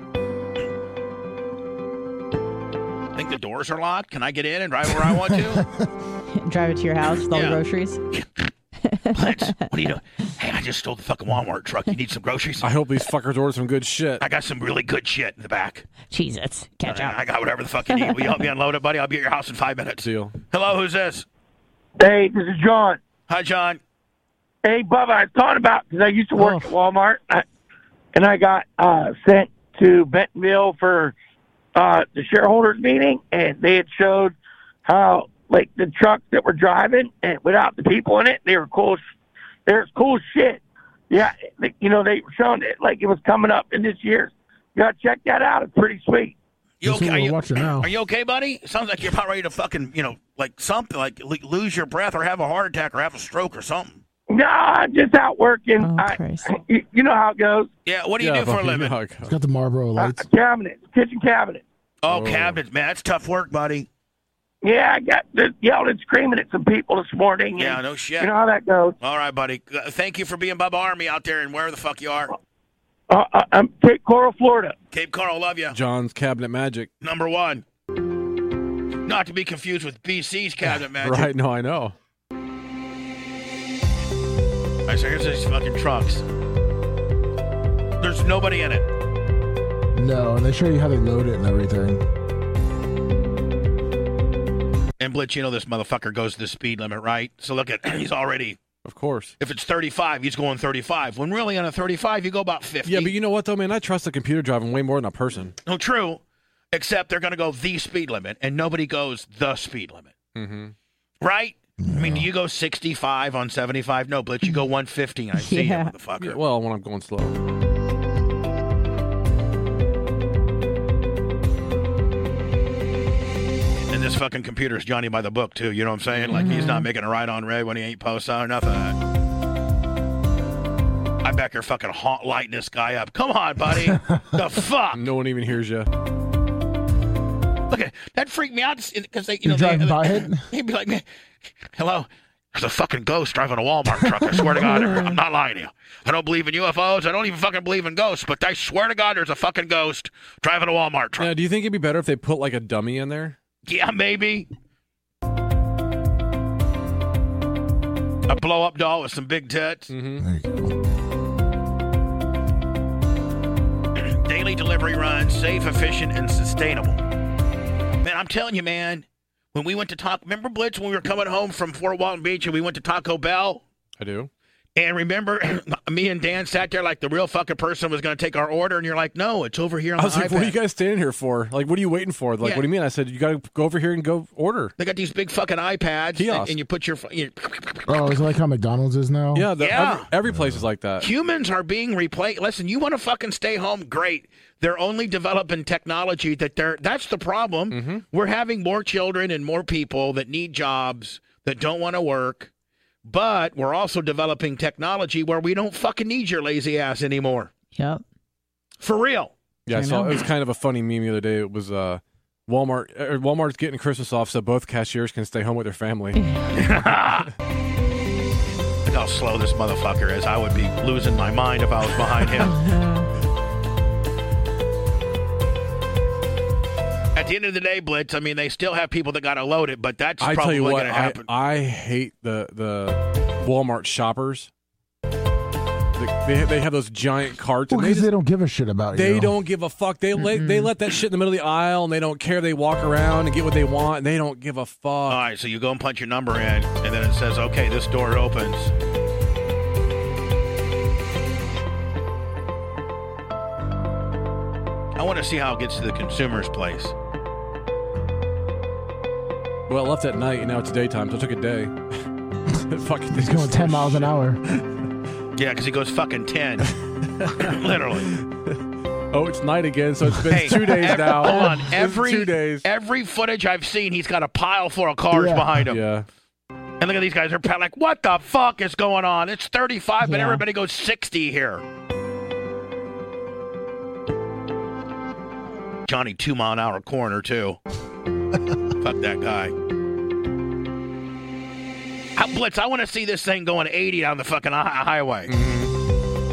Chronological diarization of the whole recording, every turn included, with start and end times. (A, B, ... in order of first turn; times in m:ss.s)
0:03.1-0:05.6 A
0:05.0-0:05.8 B
0:06.3-0:08.0 C
0:07.3-0:08.5 A
0:08.8-0:09.6 C
0:09.1-0:12.7 A
0:12.6-0:14.2 D
0:14.2-0:15.8 A
0:16.1-0:17.2 C
0:16.8-0:21.2 A
0:17.9-0:18.4 C
0:20.0-0:20.4 D
0:22.0-0:23.0 E
0:23.3-0:23.8 A
0:24.6-0:27.4 E
0:26.4-0:26.7 C
0:28.1-0:31.1 E
0:31.8-0:34.3 E
0:34.8-0:39.0 E
0:39.7-0:46.3 E
0:46.8-0:54.0 A
0:46.8-0:47.9 B
0:54.3-0:57.7 E
0:55.8-0:56.5 C
0:57.8-0:59.0 A
0:58.2-0:59.3 D
0:59.2-1:00.2 B
1:00.0-1:01.6 E
1:02.0-1:03.9 A
1:02.1-1:02.6 D
1:04.6-1:08.9 E
1:07.6-1:08.3 A
1:09.0-1:12.3 A
1:13.1-1:14.7 E
1:14.9-1:15.8 A
1:15.7-1:16.9 D
1:17.0-1:17.6 A
1:19.0-1:21.3 A
1:21.0-1:21.9 D
1:24.9-1:26.2 A
1:28.0-1:28.8 A
1:29.9-1:32.0 B
1:35.0-1:38.6 A
1:38.8-1:39.3 D
1:39.4-1:43.1 A
1:42.8-1:45.6 D
1:45.6-1:46.2 A
1:46.7-1:50.1 A
1:50.3-1:50.7 D
1:51.2-1:56.4 A
1:51.8-1:52.3 B
1:55.3-1:55.9 C
1:56.2-1:57.4 D
2:03.9-2:09.0 A
2:06.1-2:06.4 D
2:06.3-2:06.9 C
2:11.2-2:15.0 A
2:13.8-2:14.4 B
2:14.9-2:15.9 D
2:17.7-2:21.0 A
2:19.4-2:20.4 B
2:21.6-2:31.3 A
2:24.6-2:25.2 C
2:31.2-2:33.4 D
2:33.6-2:34.5 A
2:38.3-2:39.9 A
2:39.9-2:40.2 D
2:40.2-2:40.7 B
2:44.0-2:47.0 A
2:48.0-2:53.6 A
2:54.0-2:54.3 D
2:54.8-3:00.5 A
3:00.0-3:04.7 D
3:04.8-3:07.9 A
3:06.2-3:06.6 D
3:07.9-3:09.5 B
3:09.3-3:11.1 D
3:09.6-3:10.1 A
3:10.2-3:10.6 B
3:11.0-3:22.5 A
3:17.7-3:18.0 D
3:23.0-3:27.5 A
3:27.7-3:28.0 C
3:28.8-3:29.3 A
3:29.6-3:36.2 D
3:29.7-3:30.2 C
3:36.1-3:36.5 C
3:36.5-3:37.3 A
3:38.8-3:42.6 A
3:42.5-3:43.1 C
3:47.1-3:51.3 A
3:50.2-3:54.5 D
3:56.0-3:58.1 D
3:57.7-3:59.3 B
3:58.9-4:05.2 D
4:00.2-4:00.7 C
4:05.1-4:08.7 A
4:15.0-4:16.9 A
4:19.7-4:21.8 D
4:22.7-4:24.1 D
4:23.1-4:24.4 B
4:25.4-4:26.7 A
4:27.2-4:32.6 D
4:27.4-4:28.1 A
4:30.3-4:35.8 A
4:30.3-4:31.0 B
4:35.1-4:35.6 B
4:35.7-4:36.0 D
4:36.8-4:41.6 A
4:40.0-4:40.4 C
4:45.8-4:47.6 A
4:48.8-4:49.5 A
4:52.2-4:55.3 A
4:55.3-4:55.7 D